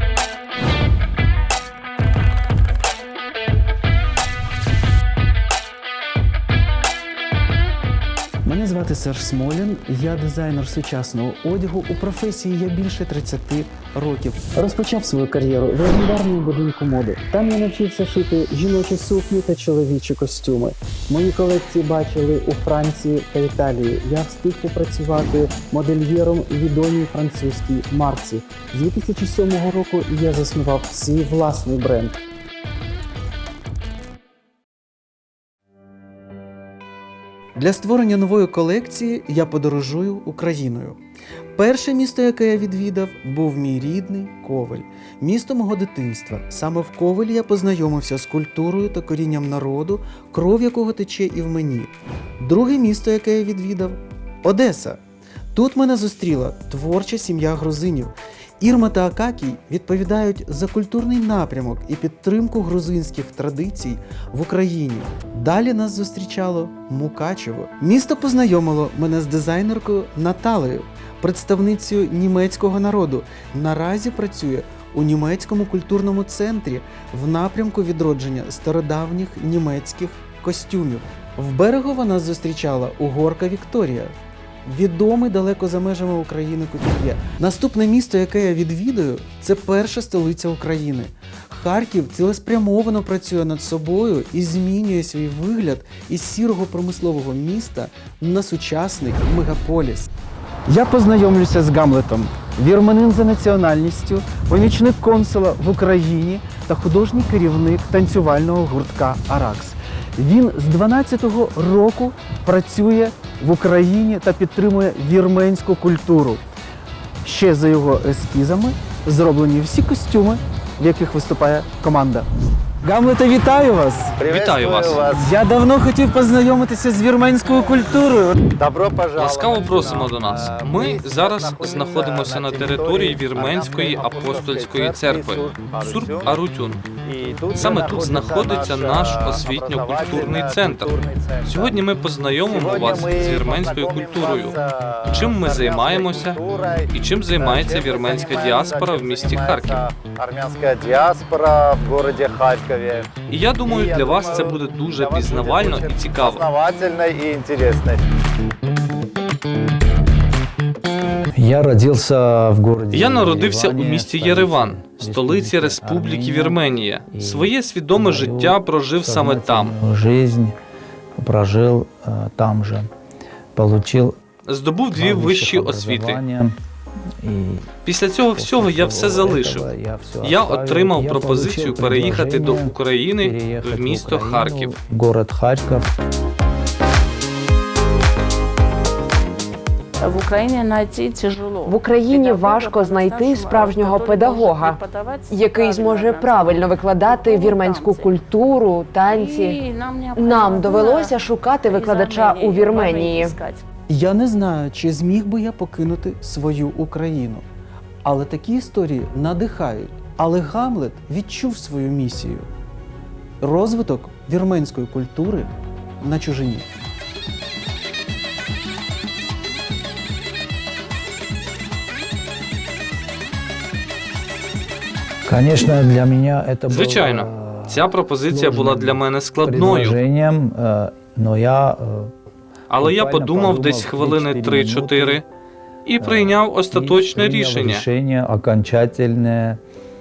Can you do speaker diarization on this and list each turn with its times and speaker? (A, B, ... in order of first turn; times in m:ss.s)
0:08.4-0:32.2 A
0:37.5-0:41.0 A
0:41.6-0:55.0 A
0:55.5-1:24.1 A
1:24.6-1:40.1 A
1:40.7-1:56.4 A
1:57.2-2:02.3 A
2:02.8-2:04.2 A
2:04.2-2:05.2 B
2:04.2-2:05.0 C
2:05.1-2:08.4 A
2:08.6-2:16.4 B
2:09.2-2:16.9 C
2:17.0-2:21.7 B
2:17.5-2:20.9 C
2:21.4-2:24.6 C
2:22.4-2:33.1 B
2:25.1-2:26.4 C
2:26.9-2:29.8 C
2:33.3-2:36.4 C
2:33.6-2:38.0 B
2:41.4-2:46.6 D
2:42.9-2:49.7 C
2:47.1-2:50.5 D
2:51.2-2:52.9 D
2:53.5-2:54.2 D
2:54.5-2:56.2 C
2:54.9-2:56.6 D
2:57.2-2:57.7 D
2:57.8-2:59.7 C
2:58.3-3:05.9 D
3:00.2-3:04.7 C
3:10.0-3:18.1 E
3:11.6-3:19.6 F
3:19.0-3:21.1 E
3:20.2-3:23.4 F
3:21.6-3:23.6 E
3:23.9-3:27.4 A
3:28.0-3:32.5 A
3:33.4-3:36.6 A
3:45.2-3:52.1 D
3:46.7-3:50.0 C
3:52.7-3:55.2 C
3:52.8-3:55.2 D
3:55.8-3:57.8 C
3:56.0-3:59.6 D